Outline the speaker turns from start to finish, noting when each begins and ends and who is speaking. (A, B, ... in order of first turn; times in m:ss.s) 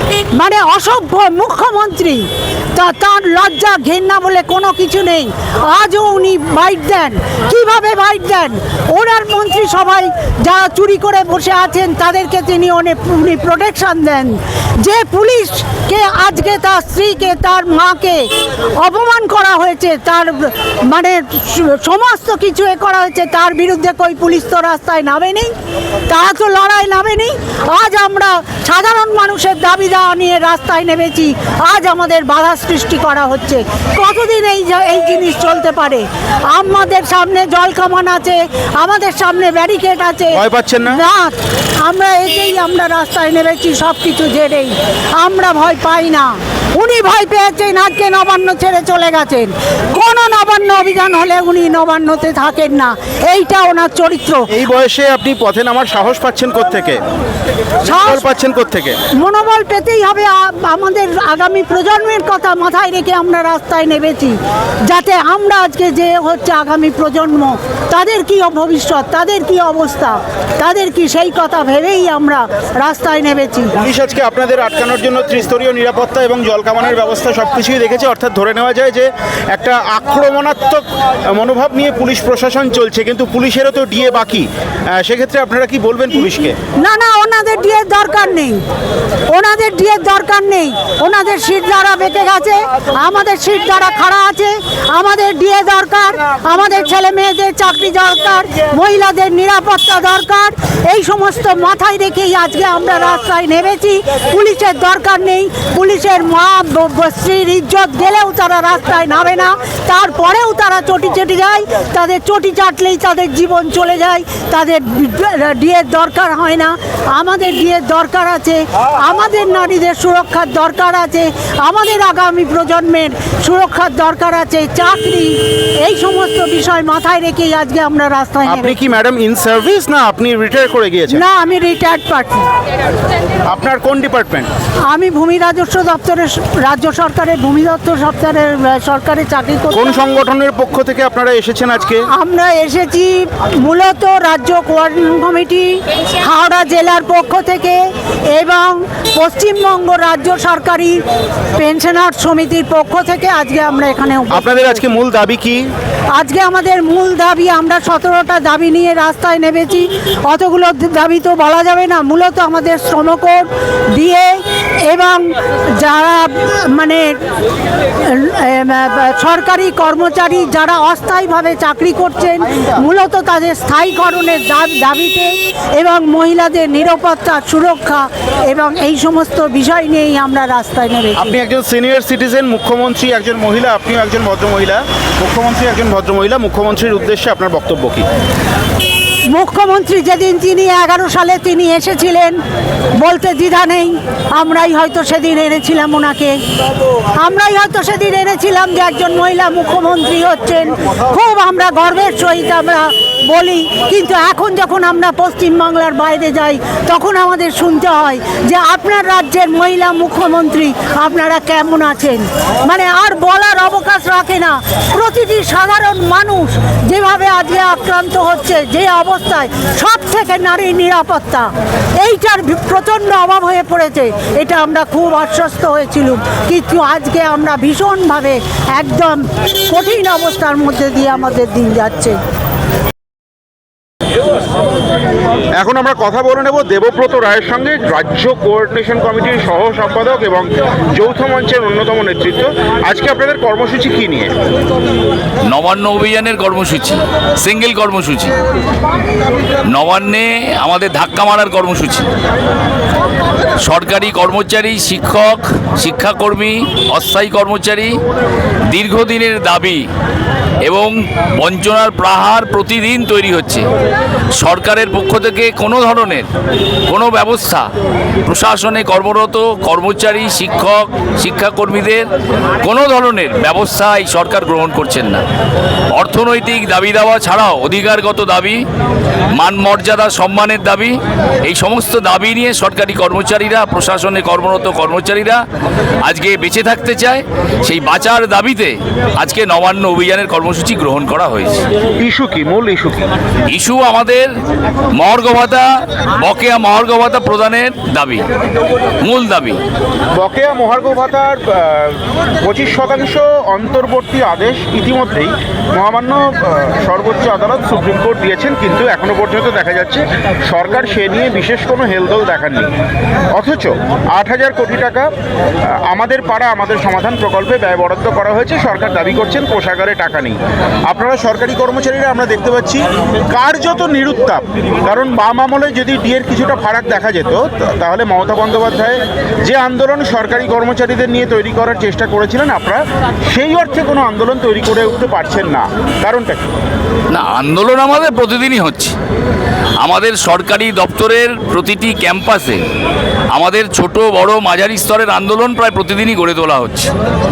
0:00.3-0:25.5 A
0:26.1-0:54.5 A
0:40.3-0:41.0 B
0:54.5-0:57.0 B
0:57.8-0:58.2 A
0:58.0-0:59.0 B
0:59.2-1:13.7 A
1:13.8-1:24.5 B
1:25.0-1:26.6 B
1:26.8-1:28.6 A
1:29.3-2:08.8 A
2:08.4-2:11.2 B
2:11.1-2:12.5 A
2:13.5-2:14.5 B
2:14.9-2:20.0 A
2:19.7-2:22.0 B
2:22.1-2:31.0 A
2:31.6-2:34.7 A
2:34.3-2:35.6 B
2:36.2-2:47.2 A
2:48.0-3:01.3 A
3:01.2-3:08.0 B
3:09.3-3:12.4 A
3:13.0-3:16.4 A
3:17.2-3:52.2 A
3:55.6-4:04.3 B
4:05.5-4:08.3 C
4:09.7-4:12.1 C
4:13.6-4:18.0 C
4:18.7-4:19.8 C
4:20.6-4:23.7 C
4:24.3-4:26.3 C
4:26.9-4:27.7 C
4:28.2-4:32.0 C
4:32.6-4:35.2 C
4:35.9-4:38.6 C
4:39.3-4:45.4 C
4:46.0-4:51.6 C
4:52.0-4:53.1 B
4:53.5-4:54.3 C
4:54.9-4:58.2 C
4:59.0-4:59.6 C
5:00.1-5:12.7 B
5:13.3-5:15.1 B
5:15.8-5:36.5 B
5:37.1-5:38.9 C
5:39.8-5:42.6 C
5:43.3-5:46.9 C